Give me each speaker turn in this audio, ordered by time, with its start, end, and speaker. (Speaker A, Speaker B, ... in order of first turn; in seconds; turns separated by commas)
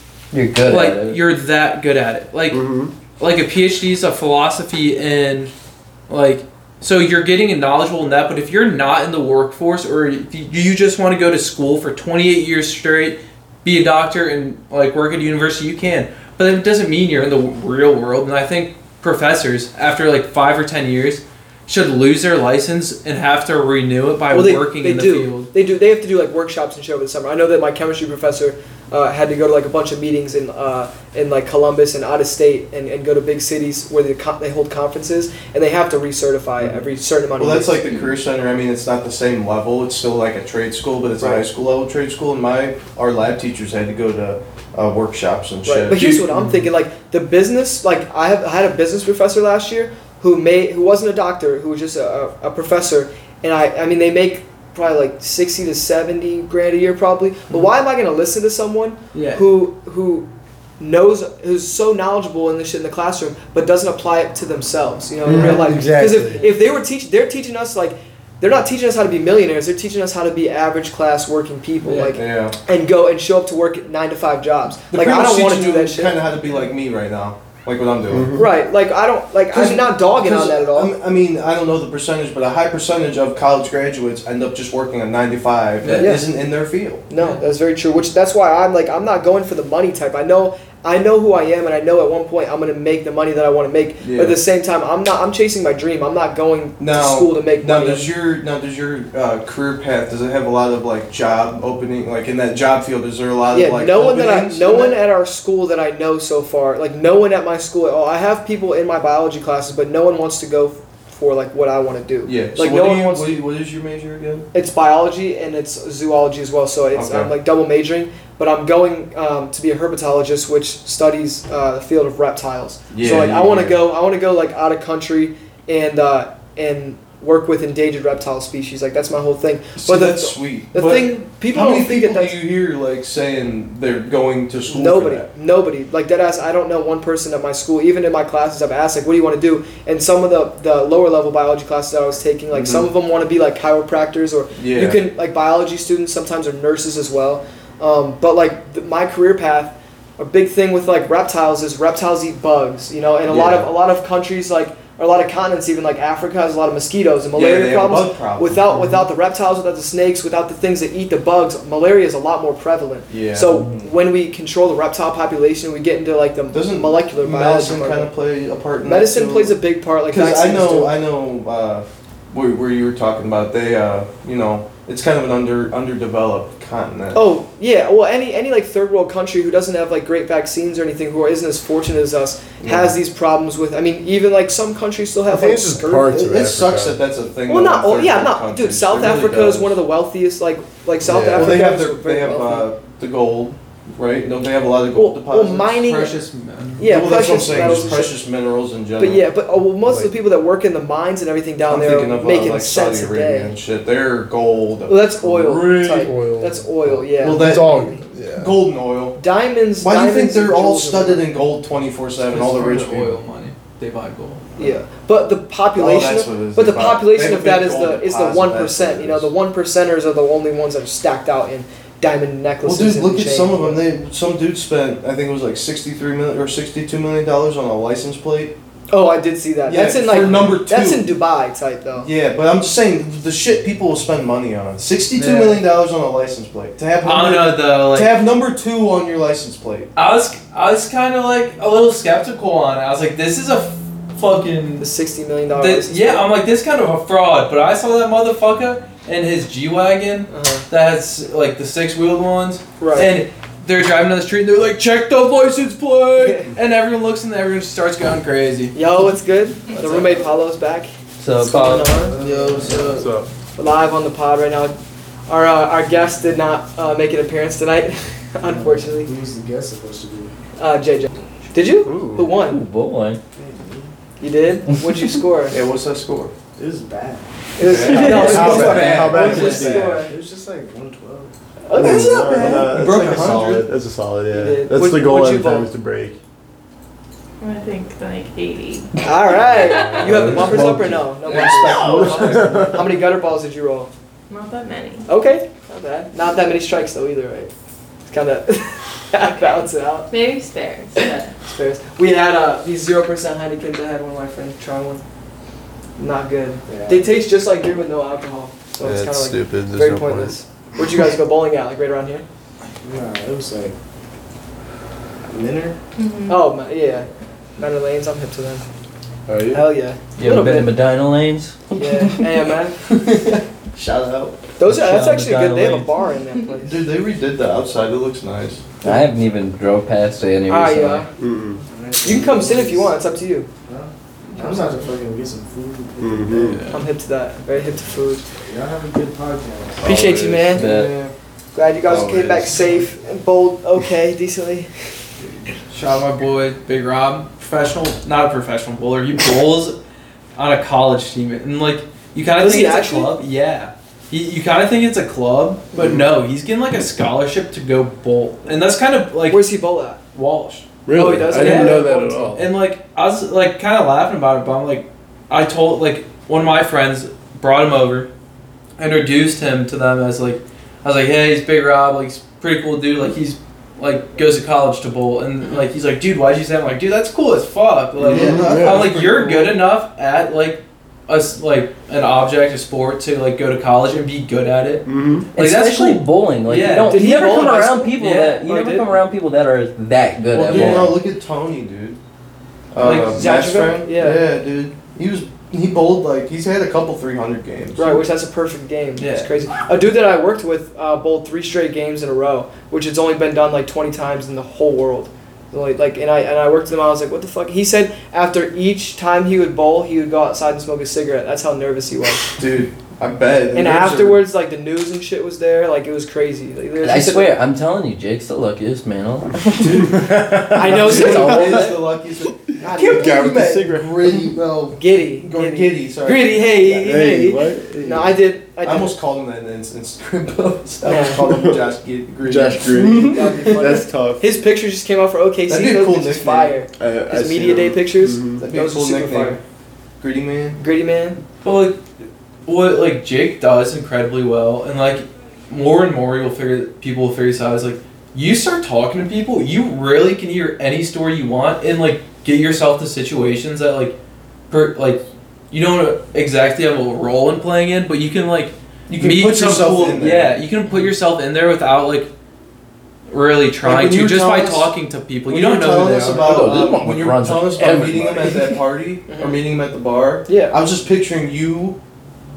Speaker A: 0.3-1.2, Speaker B: 0.6-2.6, Speaker C: 2.5-2.9, Speaker B: 3.2-5.5, Speaker B: 6.1-25.5, Speaker D: 24.3-38.1, Speaker E: 37.4-46.3, Speaker D: 41.2-41.4, Speaker D: 45.6-60.3, Speaker B: 59.1-59.4, Speaker D: 60.8-76.2, Speaker C: 65.2-66.4, Speaker B: 71.8-72.1, Speaker E: 72.1-72.5, Speaker E: 74.9-78.5, Speaker C: 78.1-78.5, Speaker D: 78.3-80.9, Speaker E: 79.5-87.0, Speaker B: 85.8-86.1, Speaker D: 86.0-86.2, Speaker D: 87.1-98.0, Speaker E: 94.0-94.4, Speaker E: 96.8-105.0, Speaker D: 103.5-113.3, Speaker E: 112.2-114.5, Speaker D: 114.5-132.4, Speaker E: 116.9-117.3, Speaker E: 122.9-123.8, Speaker E: 129.8-135.3, Speaker D: 134.7-168.1, Speaker E: 142.5-142.9, Speaker E: 144.6-145.0, Speaker E: 153.3-153.7, Speaker E: 157.3-158.8, Speaker E: 163.1-163.9, Speaker E: 166.5-169.6, Speaker D: 168.8-171.0, Speaker E: 170.1-177.2, Speaker D: 177.1-186.2, Speaker E: 182.6-182.9, Speaker C: 185.3-187.0, Speaker E: 186.1-189.8, Speaker D: 187.5-192.7, Speaker C: 191.0-191.6, Speaker E: 191.1-196.1, Speaker D: 194.9-196.2, Speaker B: 195.9-197.0, Speaker D: 196.8-198.2, Speaker E: 196.8-199.3, Speaker D: 199.0-203.6, Speaker E: 201.7-205.0, Speaker D: 204.9-208.0, Speaker C: 205.2-208.6, Speaker E: 207.2-209.2, Speaker D: 209.2-211.2, Speaker E: 209.8-213.2, Speaker B: 212.2-214.4, Speaker D: 214.6-223.8, Speaker E: 215.7-219.3, Speaker E: 222.6-228.6, Speaker D: 228.9-232.1, Speaker E: 229.7-231.1, Speaker E: 232.0-239.9, Speaker B: 235.2-235.6, Speaker B: 237.0-238.2, Speaker B: 239.9-244.8, Speaker D: 244.8-246.3, Speaker B: 245.6-258.8, Speaker D: 250.3-250.7, Speaker D: 252.8-253.2, Speaker D: 258.7-262.1, Speaker B: 259.7-260.3, Speaker A: 261.2-262.1, Speaker F: 261.7-263.1, Speaker B: 262.2-263.0, Speaker C: 263.0-263.3, Speaker D: 263.6-264.8, Speaker D: 265.3-269.1, Speaker F: 268.4-270.3, Speaker D: 270.6-272.6, Speaker C: 271.9-272.3, Speaker A: 272.4-273.2, Speaker F: 273.3-273.9, Speaker D: 274.2-275.6, Speaker E: 275.5-276.3, Speaker F: 276.6-277.3, Speaker D: 277.6-280.1, Speaker E: 277.6-279.9, Speaker F: 277.9-281.3, Speaker A: 278.0-278.8, Speaker C: 278.3-280.0, Speaker D: 281.7-282.7, Speaker C: 281.7-286.2, Speaker E: 281.8-283.7, Speaker D: 284.3-285.7, Speaker G: 287.4-290.3, Speaker D: 289.0-293.9, Speaker C: 289.9-292.8, Speaker E: 291.4-292.3, Speaker F: 291.4-292.8, Speaker G: 294.3-295.1, Speaker D: 295.1-297.5, Speaker D: 298.1-300.1, Speaker G: 299.2-301.3, Speaker D: 301.0-305.0, Speaker D: 306.0-312.2, Speaker F: 306.7-307.1, Speaker C: 308.8-310.4, Speaker F: 312.8-313.8, Speaker F: 315.2-315.8, Speaker G: 315.9-316.4, Speaker D: 316.3-318.6, Speaker C: 319.3-319.6, Speaker D: 319.5-320.7, Speaker A: 320.2-322.2, Speaker D: 321.8-322.8, Speaker E: 322.9-324.4, Speaker D: 324.6-326.8, Speaker A: 324.6-325.9, Speaker E: 326.6-328.7, Speaker A: 328.8-331.0, Speaker D: 330.5-331.1, Speaker C: 331.2-331.6, Speaker F: 331.6-333.0, Speaker D: 332.0-333.5, Speaker F: 333.6-336.7, Speaker C: 336.0-336.6, Speaker B: 336.4-336.8, Speaker D: 336.7-338.2, Speaker F: 338.4-340.0, Speaker D: 339.8-340.7, Speaker C: 339.8-340.8, Speaker A: 340.5-340.9, Speaker E: 340.6-341.1, Speaker D: 341.5-344.7, Speaker C: 341.9-342.8, Speaker B: 345.7-349.8, Speaker B: 350.4-359.4, Speaker D: 352.4-353.2, Speaker C: 355.8-356.0, Speaker D: 359.3-360.0, Speaker B: 360.1-360.6, Speaker C: 360.9-362.5, Speaker D: 360.9-362.4, Speaker B: 361.3-368.1, Speaker B: 368.8-387.3, Speaker E: 378.0-379.6, Speaker C: 378.1-378.9, Speaker C: 384.9-385.2, Speaker A: 385.3-391.0, Speaker D: 386.8-388.8, Speaker B: 388.0-388.8, Speaker E: 390.3-392.0, Speaker D: 390.6-390.8, Speaker E: 392.7-398.0, Speaker B: 392.8-393.1, Speaker D: 392.8-394.2, Speaker D: 397.8-412.3, Speaker B: 399.0-399.3, Speaker E: 412.4-414.2, Speaker D: 413.5-417.3, Speaker A: 416.8-419.9, Speaker E: 419.6-426.5, Speaker C: 419.8-421.4, Speaker D: 420.5-421.8, Speaker A: 420.8-421.8, Speaker D: 422.6-423.2, Speaker C: 422.7-424.4, Speaker D: 424.7-428.9, Speaker C: 426.6-428.2, Speaker E: 428.6-433.7, Speaker D: 430.8-431.2, Speaker C: 431.2-431.7, Speaker C: 432.2-434.2, Speaker D: 433.1-439.4, Speaker E: 435.5-436.6, Speaker C: 436.8-438.4, Speaker E: 438.4-439.4, Speaker E: 440.0-440.6, Speaker D: 440.6-441.2, Speaker B: 441.4-441.8, Speaker B: 442.4-453.9, Speaker B: 454.5-462.1, Speaker E: 458.9-460.4, Speaker B: 463.1-466.3, Speaker E: 463.6-464.7, Speaker E: 465.3-471.8, Speaker A: 466.0-468.6, Speaker D: 469.1-469.4, Speaker D: 470.2-470.6